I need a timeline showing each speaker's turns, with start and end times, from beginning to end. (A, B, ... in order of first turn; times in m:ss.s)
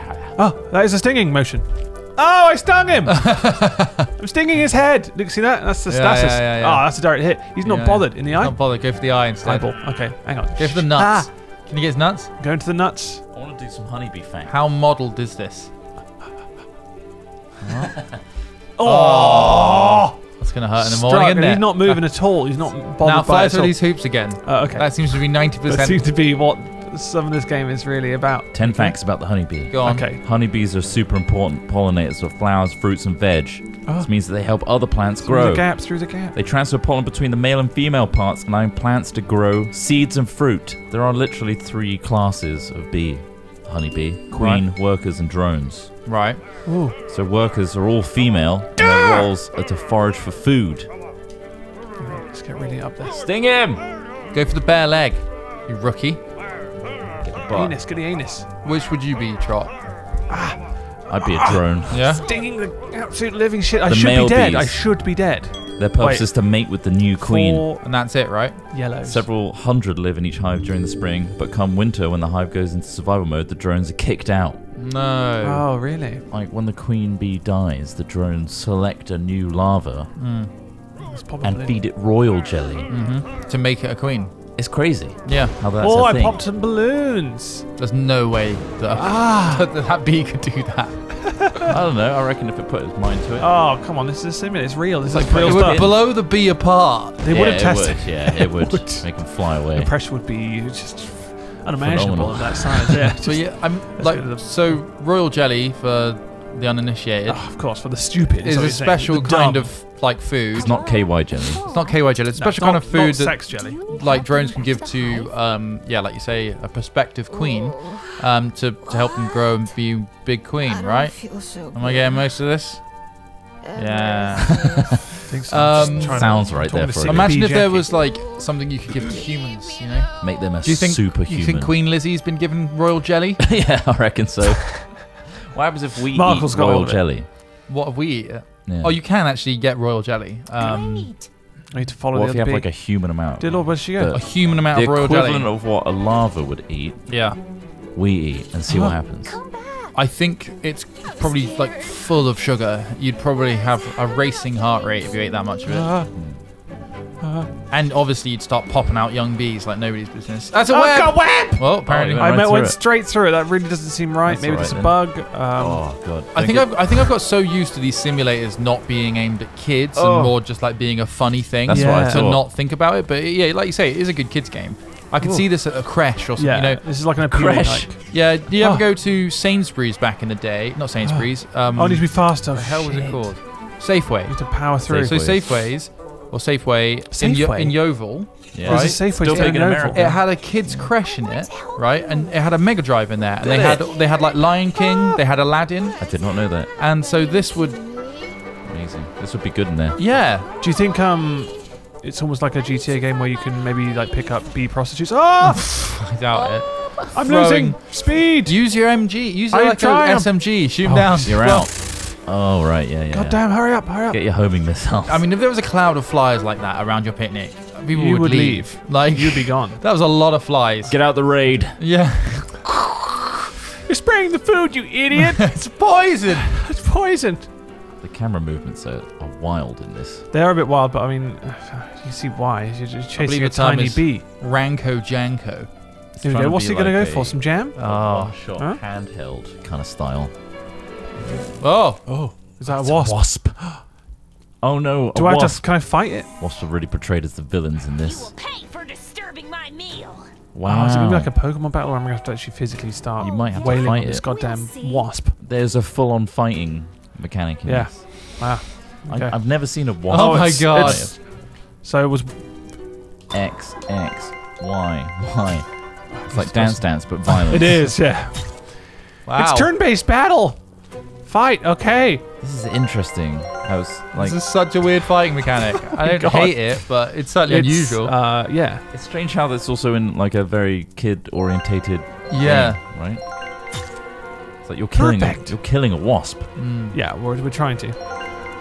0:00.4-0:11.3 A
0:03.2-0:04.1 B
0:05.9-0:07.1 B
0:07.6-0:12.3 B
0:12.4-0:13.2 A
0:13.3-0:14.5 C
0:14.5-0:15.7 B
0:17.6-0:18.4 C
0:18.8-0:20.2 A
0:18.8-0:26.0 B
0:20.8-0:29.0 A
0:28.5-0:46.0 C
0:29.7-0:30.1 B
0:29.8-0:30.2 A
0:33.8-0:34.1 A
0:35.2-0:36.4 A
0:44.3-0:44.6 B
0:46.0-0:46.6 B
0:46.6-0:47.0 A
0:47.1-0:50.9 C
0:48.8-0:49.3 A
0:52.0-0:53.3 A
0:53.2-0:53.8 C
0:54.3-0:56.2 B
0:57.2-0:57.8 C
0:57.5-0:58.5 A
0:58.6-0:59.8 B
1:00.3-1:06.4 A
1:01.1-1:02.0 C
1:01.9-1:02.2 B
1:03.9-1:04.9 C
1:05.8-1:07.7 C
1:07.2-1:08.1 A
1:07.8-1:08.8 B
1:08.7-1:09.3 A
1:09.0-1:14.6 C
1:14.7-1:15.7 B
1:15.4-1:16.2 A
1:16.3-1:20.1 C
1:20.2-1:20.5 B
1:21.0-1:21.8 A
1:21.4-1:22.9 C
1:22.9-1:24.5 B
1:24.6-1:26.4 C
1:25.2-1:25.6 B
1:25.8-1:27.7 A
1:27.8-1:31.7 B
1:28.9-1:29.7 A
1:31.7-1:33.5 C
1:33.4-1:36.0 A
1:35.1-1:36.0 C
1:35.4-1:37.2 B
1:37.2-1:44.8 A
1:37.3-1:39.9 C
1:41.8-1:43.0 C
1:43.2-1:47.6 B
1:47.2-1:49.8 A
1:48.4-2:04.6 B
1:50.5-1:52.0 D
1:50.5-1:51.6 C
1:52.3-1:53.8 A
1:53.5-1:55.4 D
2:01.2-2:01.7 D
2:04.0-2:04.5 D
2:05.3-2:07.9 A
2:05.5-2:06.5 B
2:05.9-2:07.5 C
2:07.0-2:13.6 B
2:09.1-2:10.0 D
2:10.2-2:11.8 C
2:13.4-2:17.3 C
2:16.1-2:17.1 A
2:17.7-2:21.3 B
2:18.6-2:19.0 C
2:20.6-2:21.3 D
2:21.7-2:24.2 A
2:22.1-2:29.4 C
2:24.1-2:25.5 B
2:27.1-2:27.4 B
2:28.7-2:29.0 A
2:29.2-2:30.0 D
2:29.9-2:36.0 B
2:31.0-2:32.3 D
2:33.8-2:35.2 D
2:35.6-2:37.5 A
2:36.1-2:36.4 C
2:37.7-2:42.4 B
2:40.5-2:45.9 A
2:41.8-2:42.8 C
2:44.3-2:47.0 C
2:46.3-2:57.1 B
2:50.0-2:50.4 C
2:51.6-2:52.5 C
2:51.7-2:52.3 A
2:55.2-2:58.9 A
2:57.2-2:57.9 C
2:58.1-3:18.2 B
3:01.0-3:05.2 A
3:04.8-3:05.6 C
3:07.1-3:10.2 A
3:08.5-3:10.9 C
3:11.2-3:12.4 D
3:13.4-3:13.8 C
3:13.7-3:14.0 D
3:14.8-3:15.2 D
3:16.0-3:16.7 C
3:18.6-3:20.0 C
3:20.0-3:20.5 B
3:20.6-3:26.0 A
3:25.4-3:31.7 B
3:26.4-3:26.9 D
3:27.1-3:31.7 A
3:31.2-3:35.3 C
3:33.1-3:34.2 A
3:35.1-3:42.8 B
3:37.9-3:39.8 A
3:40.9-3:42.0 C
3:43.9-3:47.5 A
3:45.5-3:46.5 B
3:48.0-3:50.3 C
3:50.3-3:54.2 A
3:53.2-3:56.1 B
3:56.2-4:00.4 C
3:56.2-3:57.8 A
3:57.8-3:58.4 B
3:58.6-3:58.8 A
4:01.6-4:02.1 B
4:02.1-4:03.8 A
4:02.6-4:03.7 C
4:04.6-4:08.4 C
4:05.1-4:06.3 A
4:08.0-4:10.4 D
4:10.5-4:11.3 C
4:10.6-4:15.4 A
4:13.2-4:14.3 C
4:13.2-4:15.1 D
4:15.4-4:21.2 C
4:17.6-4:22.8 A
4:20.1-4:21.2 B
4:23.3-4:28.0 C
4:26.1-4:32.2 A
4:29.2-4:29.7 B
4:32.4-4:34.5 C
4:34.1-4:38.1 B
4:35.9-4:38.8 A
4:38.9-4:43.2 C
4:42.3-4:42.8 B
4:44.6-4:46.5 C
4:44.9-4:45.6 A
4:46.6-4:47.0 B
4:46.9-4:48.0 A